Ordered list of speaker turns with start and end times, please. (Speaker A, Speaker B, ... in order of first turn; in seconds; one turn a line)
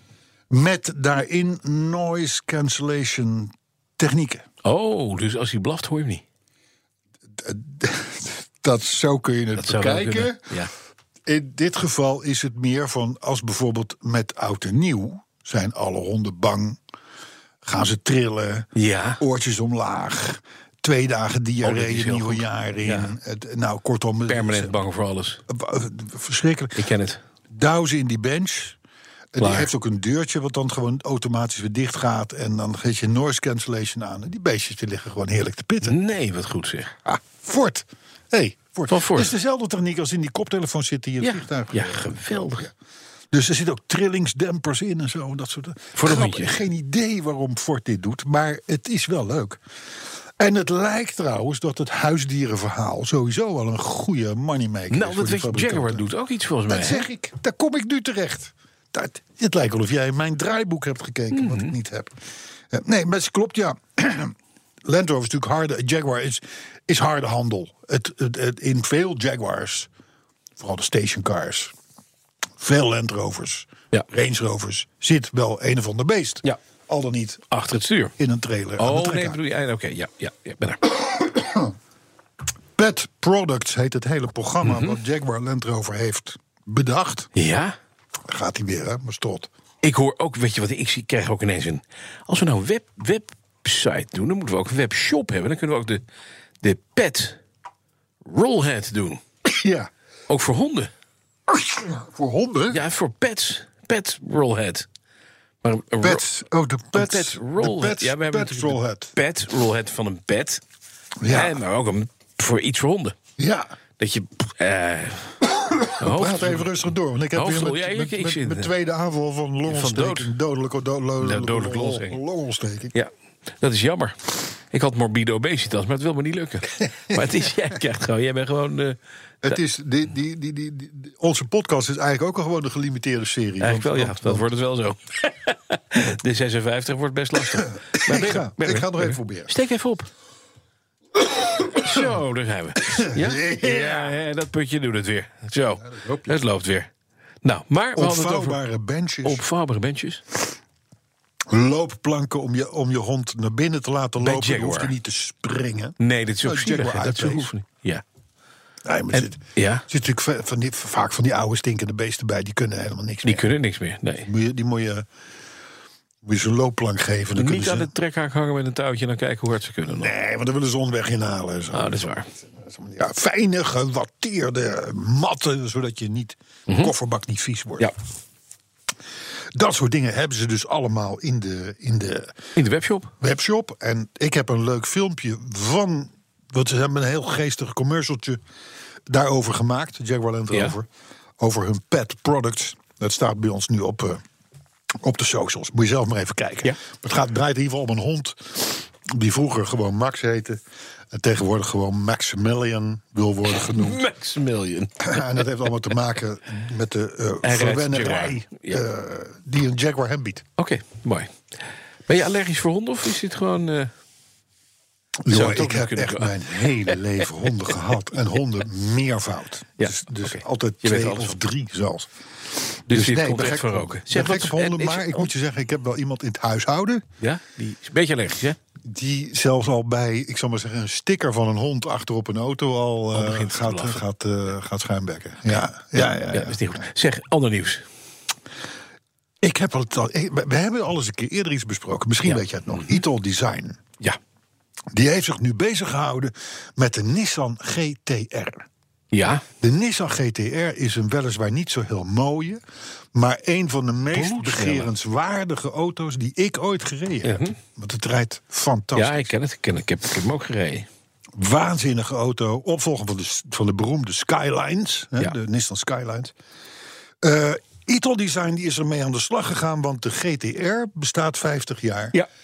Speaker A: 0.5-4.5
Speaker B: 4.6-6.2
Speaker A: 7.4-10.5
Speaker B: 9.6-10.7
Speaker A: 11.3-16.8
Speaker A: 17.6-24.8
Speaker B: 18.8-19.2
Speaker B: 21.6-23.2
Speaker B: 24.3-25.4
Speaker A: 25.5-26.8
Speaker B: 26.8-27.2
Speaker A: 27.5-28.8
Speaker A: 29.3-36.0
Speaker B: 29.4-29.7
Speaker B: 35.8-37.0
Speaker A: 37.1-42.7
Speaker B: 38.9-39.3
Speaker B: 41.2-42.7
Speaker A: 43.3-49.6
Speaker B: 46.0-46.6
Speaker A: 50.4-56.1
Speaker B: 54.9-57.0
Speaker A: 56.7-62.2
Speaker B: 61.3-61.7
Speaker A: 62.7-69.9
Speaker A: 70.6-71.7
Speaker A: 72.6-77.5
Speaker B: 77.5-78.2
Speaker A: 78.2-79.4
Speaker B: 78.8-80.9
Speaker A: 81.0-81.7
Speaker A: 82.8-87.3
Speaker B: 84.6-85.0
Speaker B: 87.3-87.8
Speaker A: 88.3-89.5
Speaker B: 89.8-96.0
Speaker B: 96.6-97.4
Speaker B: 98.2-99.2
Speaker A: 99.5-99.9
Speaker B: 100.3-100.9
Speaker A: 101.5-102.8
Speaker B: 102.7-104.9
Speaker B: 105.6-106.2
Speaker A: 106.0-109.1
Speaker B: 106.9-110.6
Speaker A: 111.2-111.6
Speaker B: 111.3-113.2
Speaker A: 113.4-113.7
Speaker B: 114.0-115.4
Speaker A: 115.4-123.0
Speaker B: 116.0-116.7
Speaker B: 117.3-118.7
Speaker B: 119.7-120.3
Speaker B: 121.2-122.2
Speaker B: 122.9-129.6
Speaker A: 129.4-134.5
Speaker B: 133.6-140.1
Speaker A: 137.9-139.6
Speaker A: 141.4-142.0
Speaker B: 141.7-146.9
Speaker A: 142.9-144.2
Speaker A: 145.8-146.3
Speaker B: 147.4-148.6
Speaker A: 147.9-149.4
Speaker B: 149.2-150.2
Speaker A: 151.5-157.5
Speaker B: 154.2-154.9
Speaker B: 156.0-158.0
Speaker A: 158.8-163.5
Speaker B: 159.1-159.8
Speaker B: 163.2-164.3
Speaker A: 164.2-165.1
Speaker A: 166.2-167.9
Speaker B: 167.4-170.1
Speaker A: 170.0-177.9
Speaker B: 171.7-172.3
Speaker B: 176.7-176.9
Speaker A: 179.6-182.3
Speaker B: 182.6-183.1
Speaker A: 183.2-188.4
Speaker A: 189.1-190.9
Speaker B: 190.5-190.8
Speaker A: 191.4-194.2
Speaker A: 195.0-204.0
Speaker B: 203.5-205.5
Speaker A: 205.0-210.5
Speaker B: 207.4-208.8
Speaker B: 210.6-211.4
Speaker B: 212.1-213.9
Speaker A: 215.2-222.1
Speaker B: 215.3-216.9
Speaker B: 219.8-221.4
Speaker A: 222.7-227.1
Speaker B: 222.9-225.3
Speaker B: 227.2-228.6
Speaker A: 228.8-236.8
Speaker B: 233.1-234.0
Speaker B: 235.5-237.9
Speaker A: 239.4-243.8
Speaker B: 242.2-243.0
Speaker A: 244.9-248.7
Speaker B: 249.1-249.4
Speaker A: 249.6-252.6
Speaker A: 253.1-259.3
Speaker B: 254.1-254.9
Speaker B: 257.2-257.6
Speaker B: 258.9-260.9
Speaker A: 261.4-266.3
Speaker A: 267.2-272.2